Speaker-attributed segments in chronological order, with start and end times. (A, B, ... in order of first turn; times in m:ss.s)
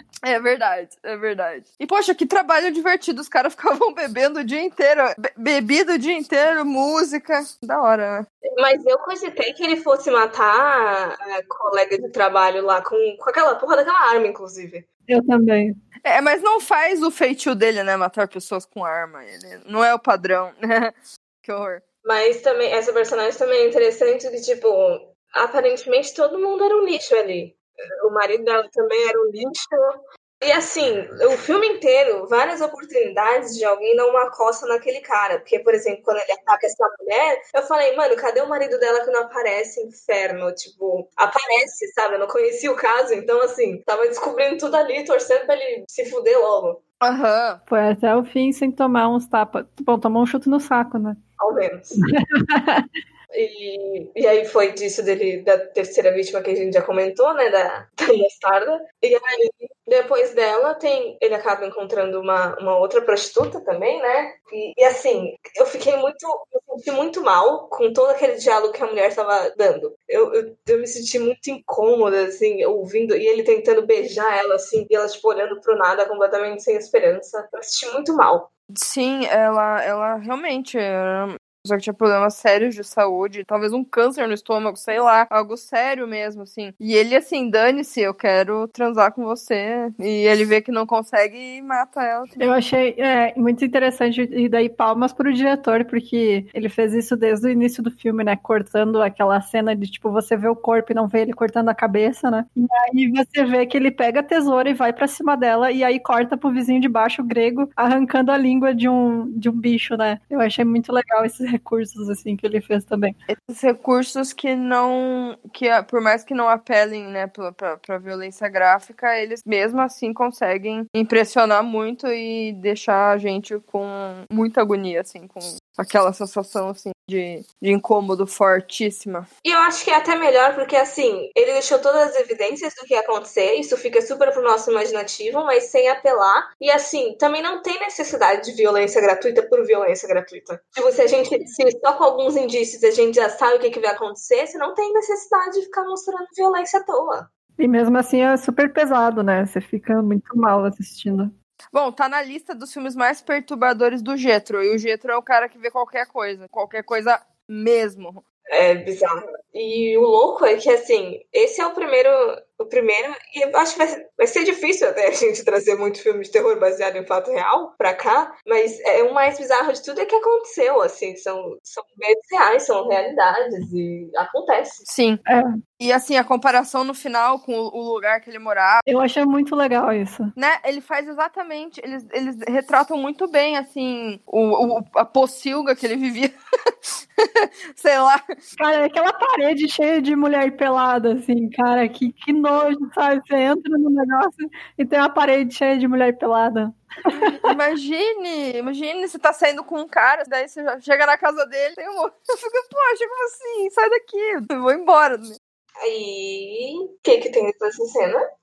0:00.2-0:08.2 A
0:08.6-0:14.9 B
0:15.1-0:15.8 C
0:16.0-0:21.8 A
0:22.0-0:46.8 B
0:47.0-0:47.6 A
0:47.7-0:51.2 C
0:51.4-0:52.0 B
0:52.0-0:52.9 C
0:53.3-1:18.5 B
1:18.8-1:32.3 A
1:32.4-1:53.1 C
1:53.3-2:09.3 A
2:09.4-2:27.3 B
2:27.6-2:31.3 C
2:31.7-2:38.2 A
2:38.5-2:54.8 B
2:54.9-2:55.2 A
2:55.8-2:58.8 A
2:58.9-3:00.3 C
3:00.4-3:08.2 A
3:08.6-3:17.5 C
3:17.1-3:25.4 A
3:25.8-3:28.2 B